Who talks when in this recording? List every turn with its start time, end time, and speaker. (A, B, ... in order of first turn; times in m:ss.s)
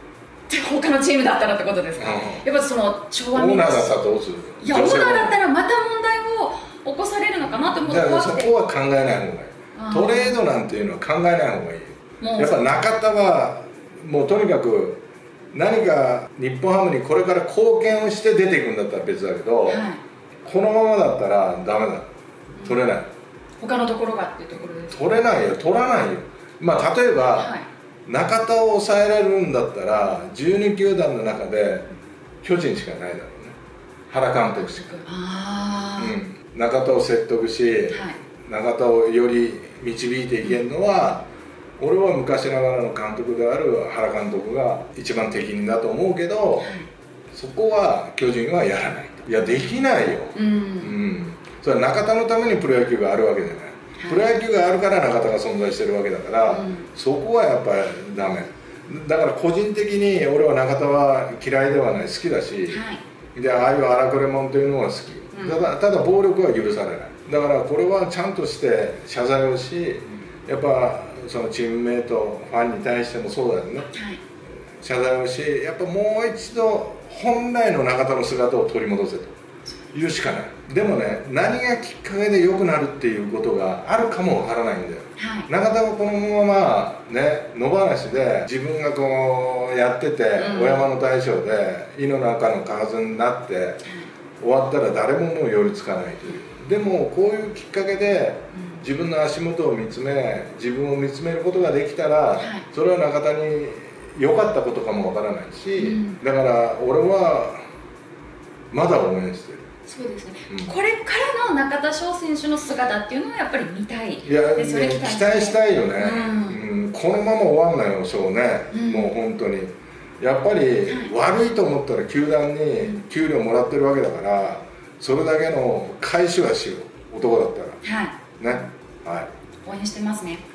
0:00.5-0:04.0 A
0:02.0-0:02.4 B
0:03.3-0:05.4 B
0:04.6-0:08.6 A
0:07.4-0:19.8 B
0:09.8-0:10.4 A
0:12.2-0:12.6 A
0:19.7-0:20.0 A
0:20.4-0:22.1 B
0:22.6-0:22.9 A
0:22.6-0:23.1 B
0:23.6-0:25.0 A
0:24.6-0:27.5 B
0:27.3-0:27.7 A
0:28.0-0:31.9 B
0:32.4-0:33.6 B
0:34.1-0:34.9 B
0:34.5-0:36.2 A
0:36.0-0:41.2 B
0:37.9-0:38.2 A
0:41.8-0:46.7 B
0:46.6-0:46.9 A
0:47.3-1:02.8 B
0:50.4-0:51.0 A
0:54.0-0:54.4 A
0:56.5-0:56.9 A
1:02.7-1:03.0 A
1:03.4-1:13.9 B
1:05.3-1:05.7 A
1:13.9-1:14.2 A
1:14.8-1:19.4 B
1:19.9-1:33.8 B
1:25.2-1:25.5 A
1:30.4-1:30.9 A
1:33.8-1:34.1 A
1:34.4-1:47.6 B
1:42.4-1:42.6 A
1:45.8-1:46.2 A
1:48.7-1:49.7 B
1:49.9-1:56.6 A
1:50.5-1:50.8 B
1:54.2-2:07.8 B
1:58.7-1:59.1 A
2:00.9-2:01.1 A
2:07.8-2:08.2 A
2:08.4-2:09.3 B
2:09.6-2:10.4 A